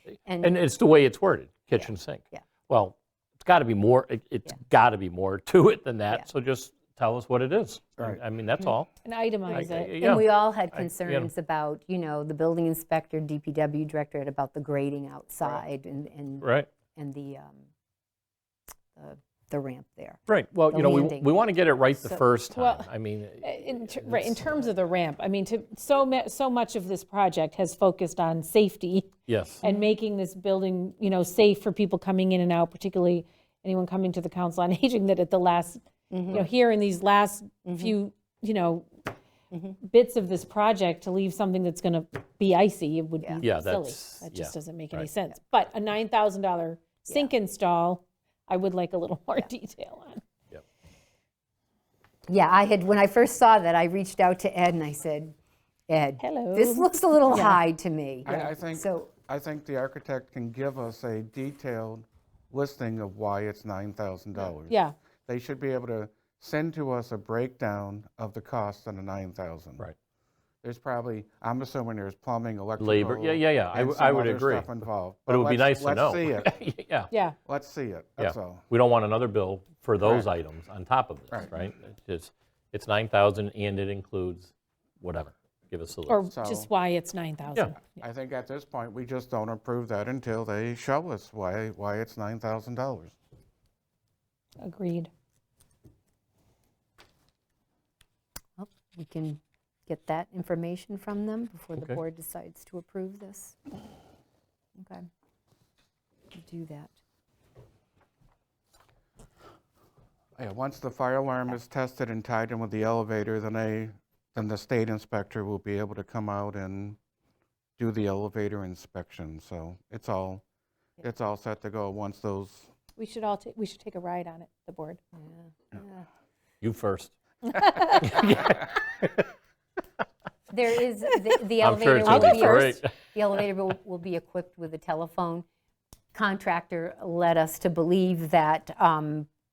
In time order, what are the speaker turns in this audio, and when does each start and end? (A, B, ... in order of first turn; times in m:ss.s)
0:00.3-0:00.6 A
0:00.4-0:08.9 B
0:01.8-0:02.4 A
0:09.0-0:09.9 C
0:09.5-0:11.3 B
0:10.0-0:17.7 A
0:16.4-0:16.7 B
0:19.0-0:22.2 A
0:20.3-0:24.4 B
0:22.6-0:22.9 C
0:23.4-0:38.9 C
0:29.3-0:29.6 B
0:36.1-0:36.5 A
0:37.7-0:38.0 A
0:39.5-0:39.8 A
0:39.8-0:50.2 C
0:43.4-0:45.1 B
0:52.3-0:55.4 A
0:55.9-0:59.1 A
0:56.2-0:57.6 C
0:58.3-1:09.8 D
1:04.7-1:05.0 C
1:10.6-1:16.5 D
1:12.8-1:17.1 B
1:17.5-1:18.6 D
1:18.2-1:26.2 B
1:20.0-1:20.3 D
1:26.1-1:28.0 C
1:26.3-1:26.7 D
1:28.0-1:33.2 D
1:34.6-1:35.1 C
1:38.6-1:43.6 A
1:44.8-1:45.1 A
1:46.3-1:47.0 A
1:50.4-1:57.0 D
1:57.8-2:00.4 D
2:01.0-2:02.7 D
2:03.0-2:05.0 C
2:05.7-2:06.0 A
2:06.6-2:09.3 B
2:07.5-2:08.2 C
2:10.5-2:15.5 A
2:11.6-2:12.9 B
2:12.1-2:12.7 C
2:16.1-2:19.3 A